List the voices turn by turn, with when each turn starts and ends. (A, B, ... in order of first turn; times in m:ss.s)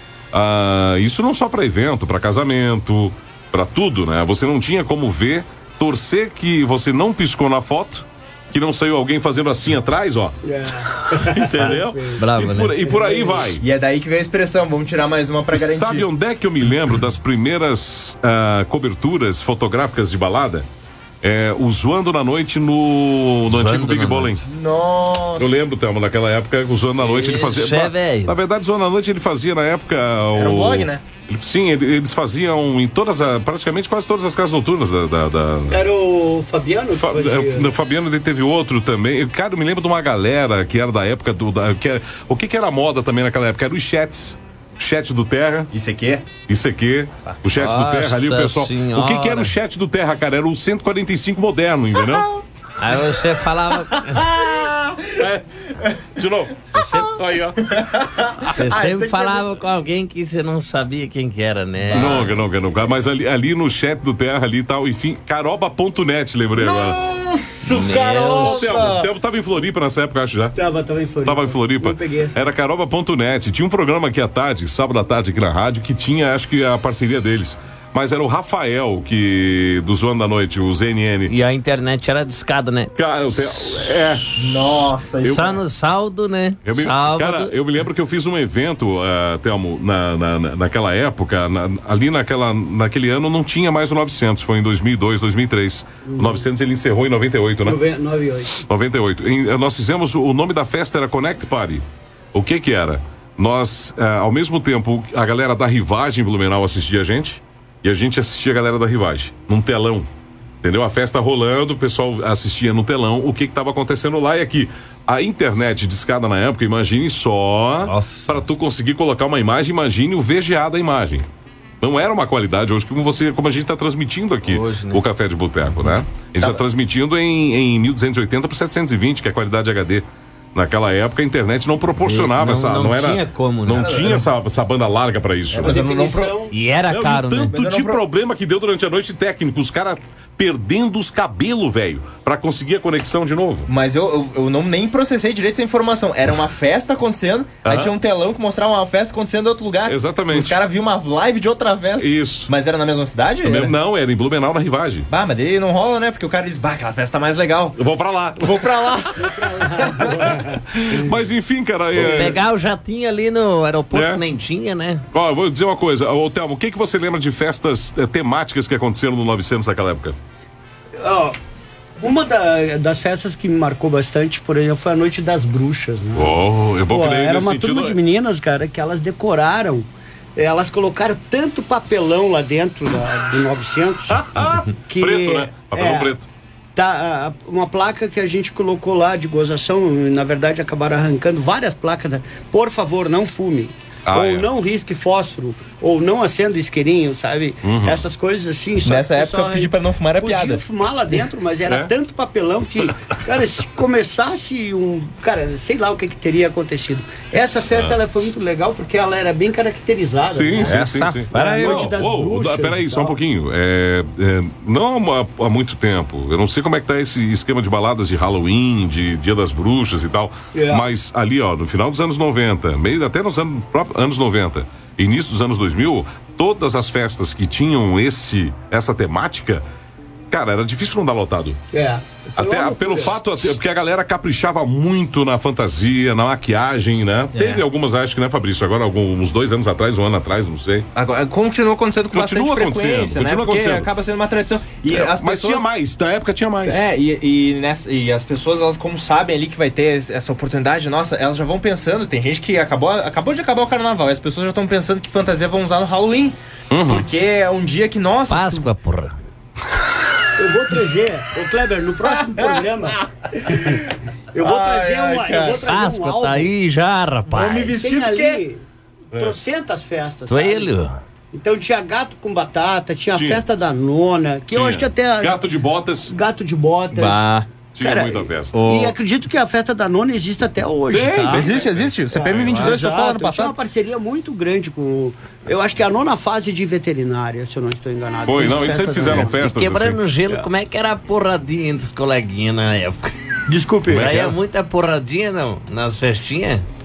0:00.3-0:10.4 A
0:10.4-0:12.2 B
0:10.9-0:13.6 A
0:11.6-0:12.8 C
0:12.8-0:13.5 B
0:13.6-0:16.1 D
0:15.5-0:20.7 A
0:21.2-0:24.4 A
0:23.5-0:24.4 C
0:24.4-0:25.6 D
0:25.4-0:35.9 A
0:27.0-0:28.4 C
0:30.4-0:31.0 D
0:35.7-0:37.7 B
0:37.0-0:45.7 A
0:45.7-0:46.2 D
0:46.5-0:52.3 A
0:47.6-0:49.6 C
0:52.0-0:52.4 D
0:52.8-0:54.3 C
0:53.8-0:55.2 D
0:55.2-0:55.4 A
0:56.2-0:57.8 A
0:56.7-0:57.2 C
0:57.6-0:59.5 D
0:58.5-1:02.3 C
1:01.9-1:02.3 D
1:01.9-1:07.0 A
1:06.6-1:09.1 D
1:07.7-1:08.9 C
1:08.4-1:10.6 A
1:10.6-1:12.4 B
1:11.2-1:21.3 A
1:21.3-1:22.9 C
1:23.0-1:24.3 A
1:24.4-1:25.6 D
1:25.2-1:25.5 A
1:25.2-1:27.5 C
1:26.6-1:37.8 A
1:36.1-1:36.4 B
1:37.6-1:38.6 B
1:38.6-1:50.1 A
1:50.6-2:01.2 A
1:57.8-1:58.3 C
2:01.8-2:15.8 A
2:04.5-2:05.0 C
2:12.0-2:14.2 C
2:13.8-2:14.2 D
2:15.5-2:16.4 D
2:15.6-2:16.6 B
2:16.5-2:17.5 C
2:16.9-2:23.7 A
2:17.5-2:18.0 D
2:23.7-2:33.7 D
2:27.6-2:27.9 A
2:29.9-2:30.6 A
2:32.0-2:32.5 A
2:33.4-2:35.1 A
2:35.1-2:37.8 D
2:37.8-2:42.4 A
2:38.4-2:40.2 D
2:39.5-2:40.4 B
2:42.0-2:45.0 C
2:43.9-2:44.2 A
2:45.1-2:50.2 A
2:51.0-2:51.4 B
2:52.0-2:56.4 B
2:56.2-2:58.0 A
2:56.9-3:04.3 B
3:04.1-3:06.3 A
3:04.9-3:06.1 B
3:06.8-3:33.2 B
3:14.1-3:14.5 A
3:17.6-3:18.0 A
3:18.8-3:20.6 D
3:21.7-3:21.9 A
3:27.7-3:28.0 A
3:30.3-3:49.6 A
3:30.6-3:31.9 C
3:40.5-3:40.8 B
3:50.3-3:51.6 A
3:51.7-3:53.1 B
3:52.4-4:00.9 A
3:57.4-3:57.6 C
4:01.0-4:05.7 D
4:02.1-4:03.9 A
4:04.9-4:06.9 A
4:06.6-4:18.7 D
4:16.7-4:17.0 A
4:18.3-4:19.2 C
4:20.4-4:26.5 B
4:22.1-4:25.6 D
4:25.6-4:27.7 C
4:27.3-4:28.4 D
4:27.3-4:30.7 B
4:30.3-4:31.0 C
4:31.3-4:35.4 B
4:33.1-4:33.4 A
4:34.5-4:36.2 A
4:36.1-4:37.2 B
4:36.9-4:37.5 D
4:37.8-4:38.6 A
4:37.8-4:49.4 B
4:38.5-4:39.0 D
4:40.9-4:42.7 A
4:41.3-4:43.6 D
4:48.2-4:50.0 A
4:49.2-4:53.2 C
4:53.5-4:54.1 B
4:53.9-4:54.4 A
4:53.9-4:56.6 C